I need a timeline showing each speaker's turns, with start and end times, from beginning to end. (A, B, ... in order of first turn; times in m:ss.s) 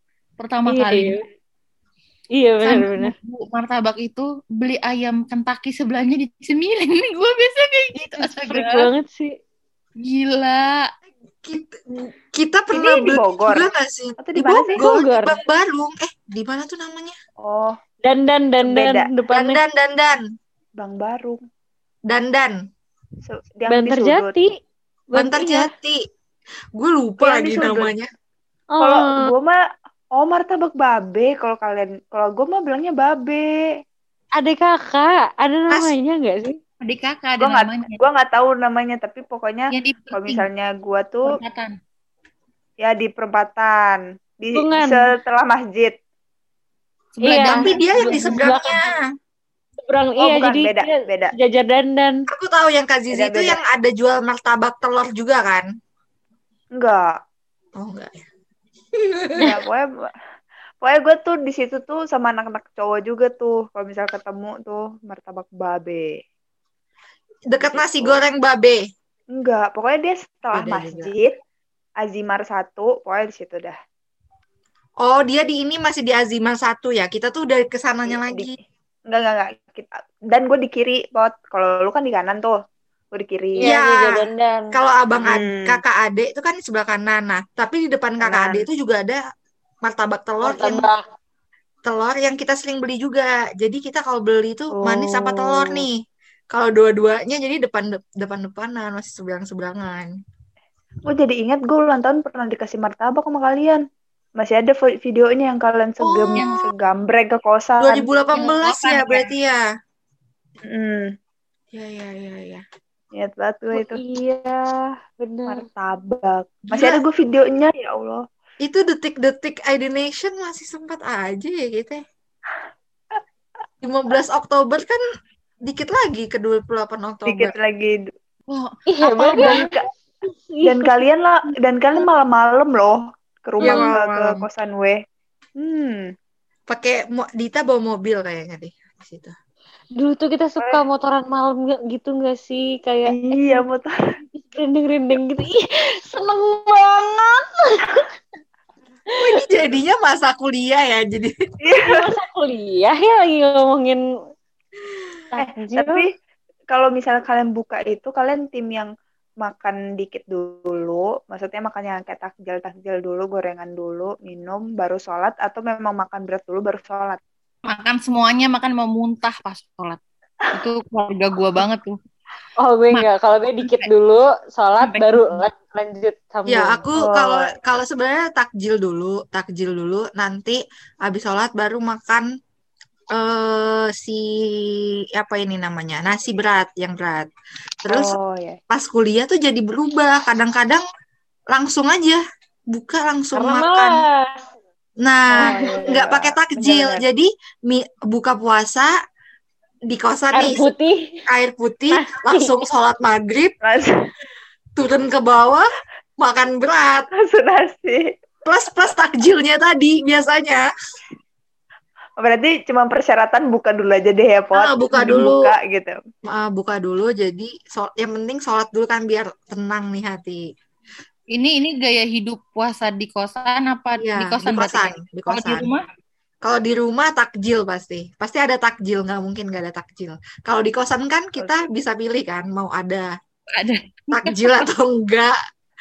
0:00.4-0:01.2 A
0:00.7-0:01.2 B
0:02.3-0:03.1 B
0:02.6-0:08.9 A
0:08.2-0:09.3 B
0:10.0-0:10.9 A
0:11.4-0:17.2 C
0:12.7-0:13.7 D
0:14.2-0:14.8 D
0:14.8-0:15.4 B
0:17.4-0:17.7 D
0:18.0-0:19.6 B
0:18.6-0:19.1 D
0:19.3-0:20.2 C
0:20.8-0:21.4 D
0:22.1-0:22.6 C
0:23.2-0:24.4 D
0:23.7-0:24.5 B
0:25.1-0:25.7 B
0:25.1-0:26.0 C
0:26.8-0:28.1 C
0:27.2-0:27.9 D
0:28.7-0:29.3 B
0:28.8-0:29.6 D
0:30.2-0:33.6 D
0:34.4-0:36.6 B
0:35.7-0:35.9 C
0:36.8-0:38.0 A
0:37.4-0:41.3 D
0:39.7-0:40.5 A
0:41.2-0:41.8 A
0:42.8-0:45.9 D
0:44.5-0:45.0 B
0:47.2-0:48.5 A
0:47.2-0:48.9 B
0:47.6-0:49.0 C
0:49.8-0:52.2 B
0:50.2-0:51.3 D
0:52.3-0:55.7 C
0:53.1-0:53.6 D
0:56.8-0:57.1 D
0:57.8-0:58.2 C
0:59.0-0:59.4 C
0:59.3-0:59.9 D
1:00.8-1:06.1 D
1:07.5-1:08.8 C
1:07.6-1:08.2 D
1:09.4-1:11.4 D
1:10.5-1:11.1 C
1:12.0-1:13.7 D
1:15.0-1:18.5 C
1:18.1-1:18.5 D
1:19.1-1:22.6 D
1:23.1-1:23.7 D
1:23.6-1:24.7 B
1:23.6-1:29.2 C
1:25.2-1:25.8 D
1:28.2-1:28.6 D
1:29.8-1:30.9 C
1:30.4-1:31.0 B
1:31.8-1:36.0 C
1:34.8-1:35.9 D
1:36.5-1:40.1 C
1:41.1-1:43.8 D
1:44.4-1:48.1 D
1:46.0-1:46.5 C
1:47.8-1:49.6 C
1:48.3-1:49.3 A
1:50.6-1:51.1 D
1:51.7-1:52.6 C
1:53.2-1:54.0 D
1:53.8-1:54.6 B
1:55.2-1:55.6 B
1:55.5-1:58.2 D
1:56.7-1:57.0 C
1:58.6-2:02.0 C
2:03.8-2:05.0 C
2:05.6-2:07.5 C
2:07.2-2:08.1 D
2:08.5-2:09.7 A
2:08.9-2:09.7 B
2:09.2-2:09.9 D
2:10.5-2:10.9 B
2:10.6-2:15.0 D
2:13.6-2:14.4 C
2:13.6-2:13.9 B
2:15.6-2:16.0 D
2:16.7-2:19.3 C
2:20.0-2:23.6 B
2:23.1-2:23.9 D
2:24.4-2:28.0 B
2:29.2-2:31.3 C
2:31.6-2:32.1 D
2:31.8-2:34.0 B
2:35.3-2:36.0 B
2:35.4-2:36.0 D
2:36.7-2:38.9 D
2:39.4-2:47.2 D
2:47.6-2:50.0 A
2:50.5-2:52.0 A
2:52.6-2:56.8 B
2:53.6-2:53.9 A
2:54.8-2:55.4 A
2:56.5-3:02.2 C
2:57.0-2:57.4 D
3:03.1-3:07.3 C
3:07.8-3:08.1 C
3:07.9-3:08.6 D
3:08.7-3:10.8 C
3:11.5-3:14.0 C
3:13.4-3:14.4 B
3:15.0-3:18.9 C
3:15.4-3:17.0 D
3:19.9-3:20.7 C
3:20.3-3:21.2 B
3:21.3-3:23.6 C
3:21.9-3:22.6 B
3:23.6-3:23.9 D
3:24.8-3:27.1 C
3:27.2-3:28.0 D
3:28.4-3:30.7 C
3:32.2-3:35.9 D
3:34.5-3:35.5 C
3:36.3-3:40.5 C
3:41.3-3:45.8 A
3:44.0-3:45.7 C
3:46.4-3:53.1 C
3:53.5-3:54.6 A
3:54.1-3:55.3 C